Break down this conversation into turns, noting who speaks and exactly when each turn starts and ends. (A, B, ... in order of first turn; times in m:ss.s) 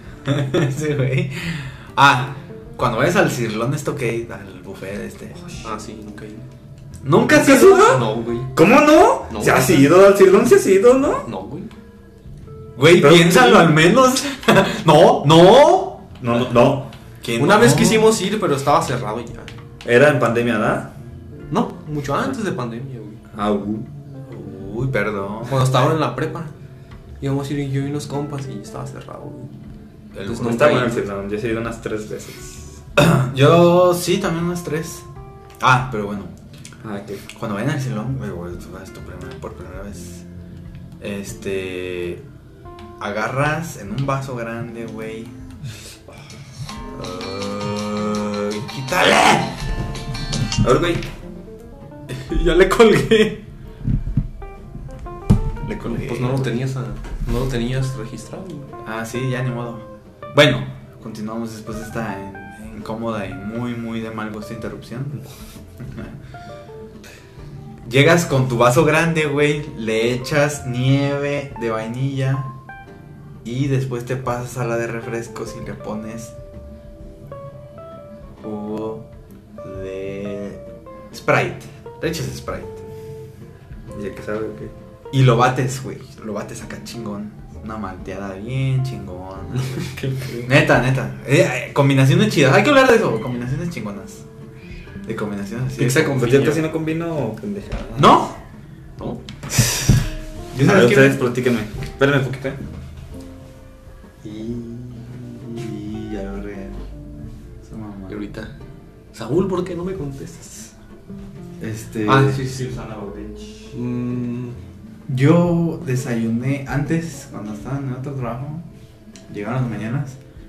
0:00.2-0:05.4 A
0:05.6-0:06.5 B
0:07.0-0:08.0 A
0:07.3-0:11.3 C
0:07.8-0:08.5 B
0:09.3-0:09.9 B
0:11.2-0:11.7 B
0:12.8-0:16.1 A
0:13.0-0:13.8 C
0:16.2-0:16.9 C
0:17.2-0:18.1 A
0:17.4-0:19.5 B
0:19.8-0:20.9 C
0:21.5-0:23.2 B
0:23.3-0:23.9 C
0:24.3-0:25.7 A
0:25.4-0:26.5 B
0:27.2-0:29.5 B
0:30.1-0:31.0 A
0:30.2-0:31.0 B
0:30.3-0:32.8 C
0:33.0-0:35.1 A
0:35.6-0:36.3 A
0:36.8-0:37.2 C
0:37.3-0:40.2 A
0:41.0-0:42.2 A
0:43.0-0:45.3 A
0:46.9-0:49.6 A
0:50.6-0:51.0 C
0:52.3-0:53.4 B
0:55.7-0:56.4 A
0:55.8-0:58.7 B
0:58.8-1:05.2 A
1:05.8-1:06.1 A
1:07.8-1:12.5 A
1:13.4-1:16.3 A
1:18.4-1:19.0 A
1:19.6-1:22.8 A
1:23.9-1:24.7 C
1:25.1-1:29.9 A
1:29.5-1:30.6 B
1:30.4-1:34.2 A
1:35.0-1:36.2 A
1:35.8-1:36.7 B
1:36.2-1:38.2 C
1:38.0-1:38.4 A
1:39.6-1:39.8 A
1:40.5-1:41.2 A
1:40.6-1:42.6 C
1:44.2-1:45.5 B
1:45.5-1:46.8 A
1:47.6-1:48.1 A
1:48.1-1:48.5 B
1:49.1-1:50.7 B
1:51.6-1:52.4 A
1:52.0-1:52.6 B
1:52.4-1:53.7 C
1:53.7-1:54.6 B
1:55.1-1:58.7 A
1:59.3-2:00.2 A